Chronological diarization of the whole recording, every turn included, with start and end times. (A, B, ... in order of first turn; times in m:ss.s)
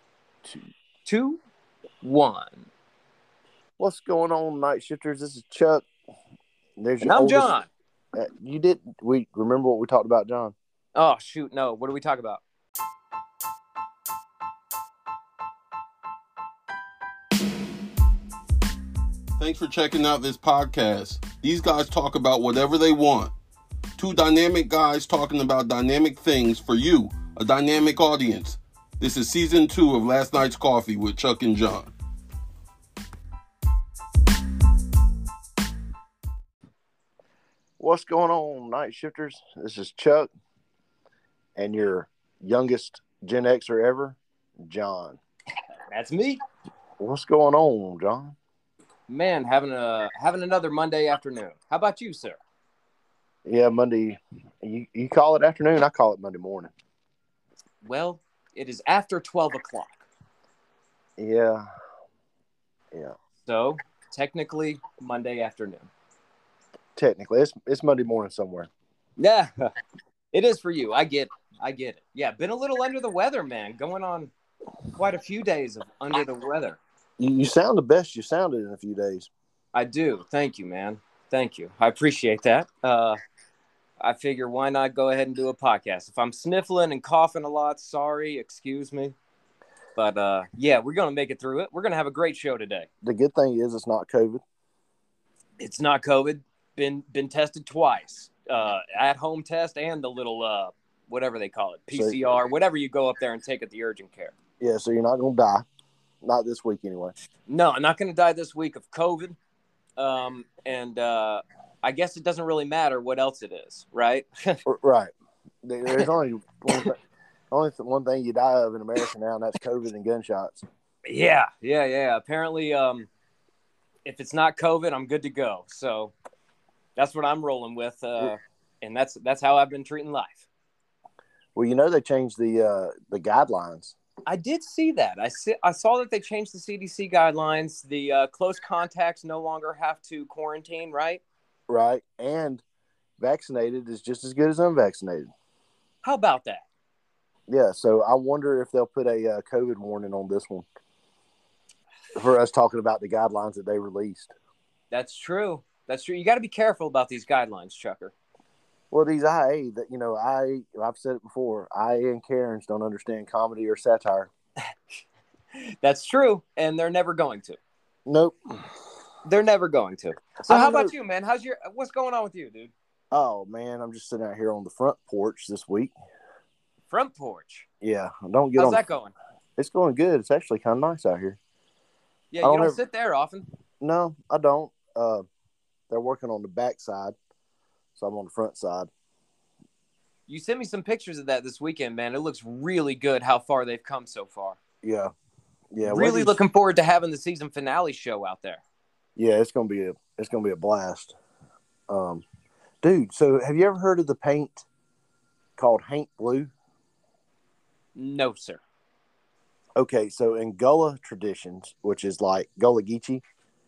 0:01.0-0:01.4 A
0:02.0-0:02.6 A
0:03.8-0:05.8 B
0:06.8-0:07.5 B
0:07.0-0:07.7 A
0:08.1-0:10.5 B
0:10.9-0:12.4 A
0:19.4-0:23.3 C
0:24.0-0:31.9 C
0:37.8-0:40.3 B
0:41.6-0:45.2 B
0:45.9-0:46.4 A
0:47.0-0:48.4 B
0:49.1-0:52.4 A
0:53.4-0:56.7 B
0:57.8-1:00.0 A
1:01.2-1:01.6 B
1:03.4-1:05.9 A
1:07.0-1:08.7 B
1:09.2-1:09.7 A
1:10.3-1:14.3 A
1:14.9-1:16.8 A
1:17.2-1:19.3 B
1:19.7-1:23.2 A
1:24.0-1:29.2 A
1:30.0-1:32.9 A
1:33.0-1:34.4 B
1:35.6-1:44.3 A
1:41.9-1:42.2 B
1:44.6-1:45.6 B
1:46.2-1:47.1 B
1:47.5-1:49.4 A
1:50.0-1:54.6 A
1:54.6-1:55.1 B
1:55.6-1:57.0 B
1:57.5-2:00.6 B
2:01.0-2:03.1 A
2:04.0-2:06.1 A
2:07.0-2:10.4 A
2:11.5-2:14.0 B
2:14.3-2:21.2 A
2:21.7-2:22.6 B
2:23.2-2:25.3 B
2:26.0-2:26.6 A
2:27.5-2:30.7 B
2:32.1-2:34.3 B
2:34.9-2:38.1 A
2:38.9-2:44.3 B
2:45.6-2:47.6 A
2:48.0-2:48.4 B
2:49.2-2:52.7 A
2:50.4-2:50.9 B
2:53.1-2:55.9 B
2:56.9-2:57.6 A
2:57.8-2:58.8 B
2:58.6-2:59.1 A
2:59.6-3:01.4 B
3:02.3-3:03.4 A
3:02.4-3:02.8 B
3:03.8-3:05.2 B
3:05.9-3:07.2 B
3:08.0-3:08.9 B
3:10.3-3:14.6 A
3:14.8-3:15.1 B
3:15.7-3:16.4 B
3:15.8-3:18.6 A
3:19.2-3:21.2 B
3:21.9-3:22.2 B
3:22.8-3:24.6 B
3:25.6-3:26.5 B
3:27.9-3:28.6 A
3:29.8-3:33.2 B